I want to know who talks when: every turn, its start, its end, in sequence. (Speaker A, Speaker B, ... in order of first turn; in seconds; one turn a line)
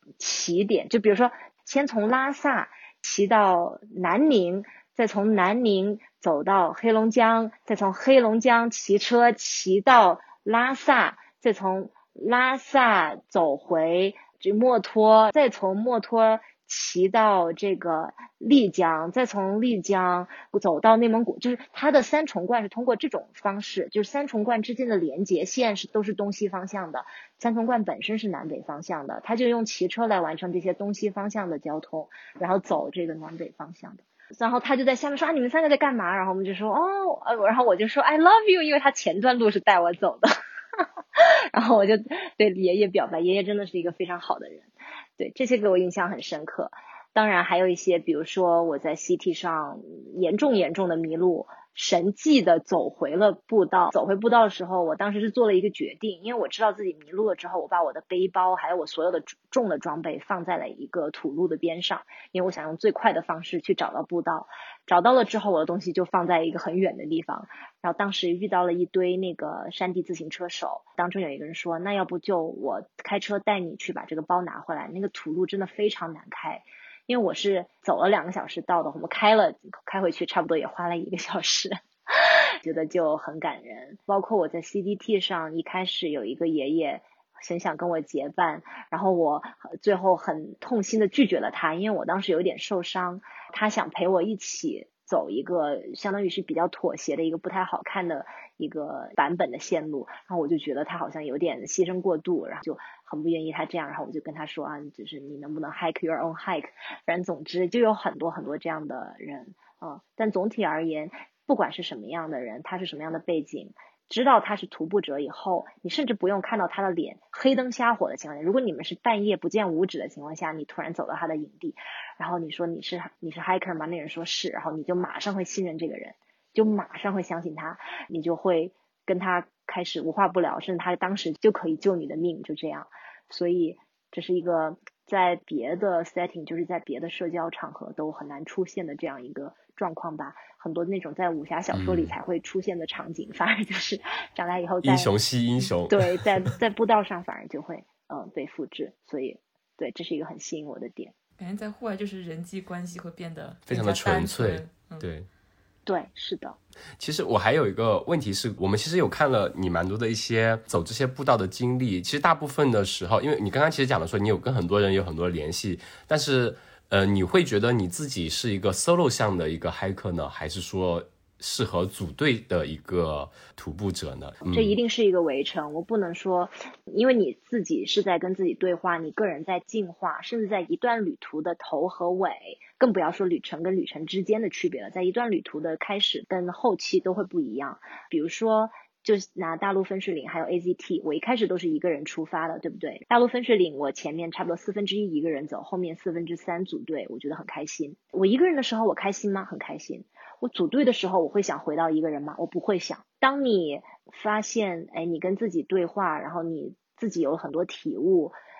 Speaker A: 0.2-145.1
Speaker B: 141.7-142.2
Speaker B: 144.8-146.5
Speaker A: 145.9-151.1
Speaker C: 151.4-155.0
Speaker B: 153.7-155.3
Speaker A: 155.8-156.6
Speaker B: 157.0-174.8
Speaker A: 174.5-208.3